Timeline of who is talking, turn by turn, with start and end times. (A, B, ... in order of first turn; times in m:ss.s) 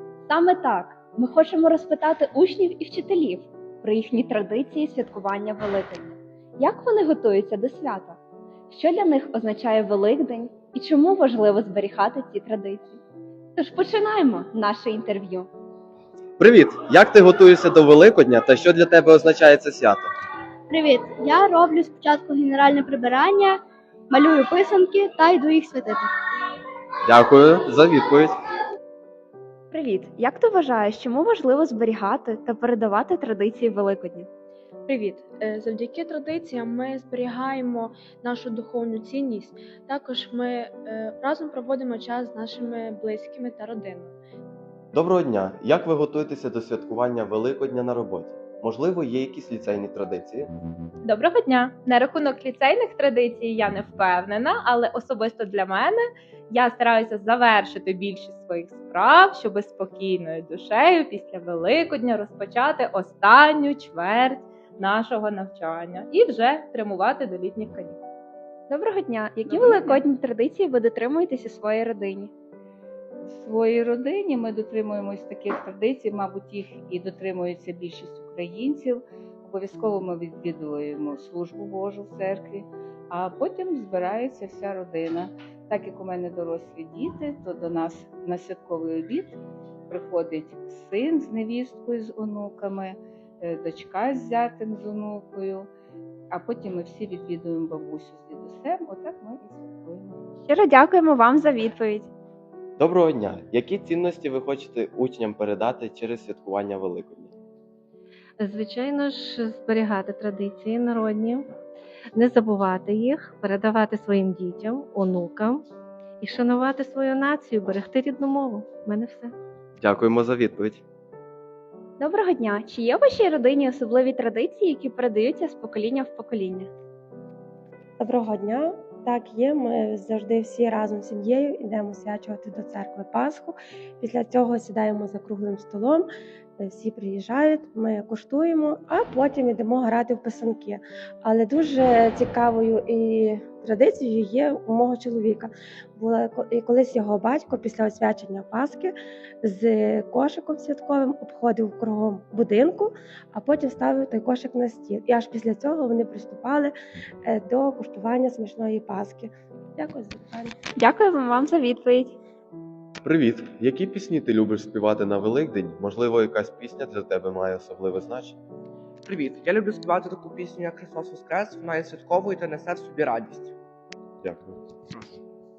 0:00.3-0:08.2 A
0:08.7-0:13.0 A
0:13.6-0:15.5 A
0:16.4-0:20.1 B
0:20.7-0:26.1 C
0:27.0-0:28.3 B
0:29.7-0:34.3 A
0:34.9-0:44.1 D
0:44.9-0:50.5 B
0:51.0-1:08.0 E
1:08.7-1:12.3 A
1:09.5-1:10.0 F
1:13.2-1:29.4 F
1:29.9-1:35.7 F
1:36.3-1:40.2 F
1:40.5-1:42.1 A
1:42.8-1:47.3 B
1:48.4-1:51.4 G
1:52.1-1:55.6 G
1:56.2-1:59.3 G
1:59.8-2:00.8 B
2:02.0-2:06.7 A
2:08.0-2:16.1 H
2:16.6-2:36.7 H
2:37.2-2:40.6 H
2:40.8-2:42.2 A
2:43.0-2:48.4 B
2:49.1-2:53.5 I
2:54.2-2:54.6 B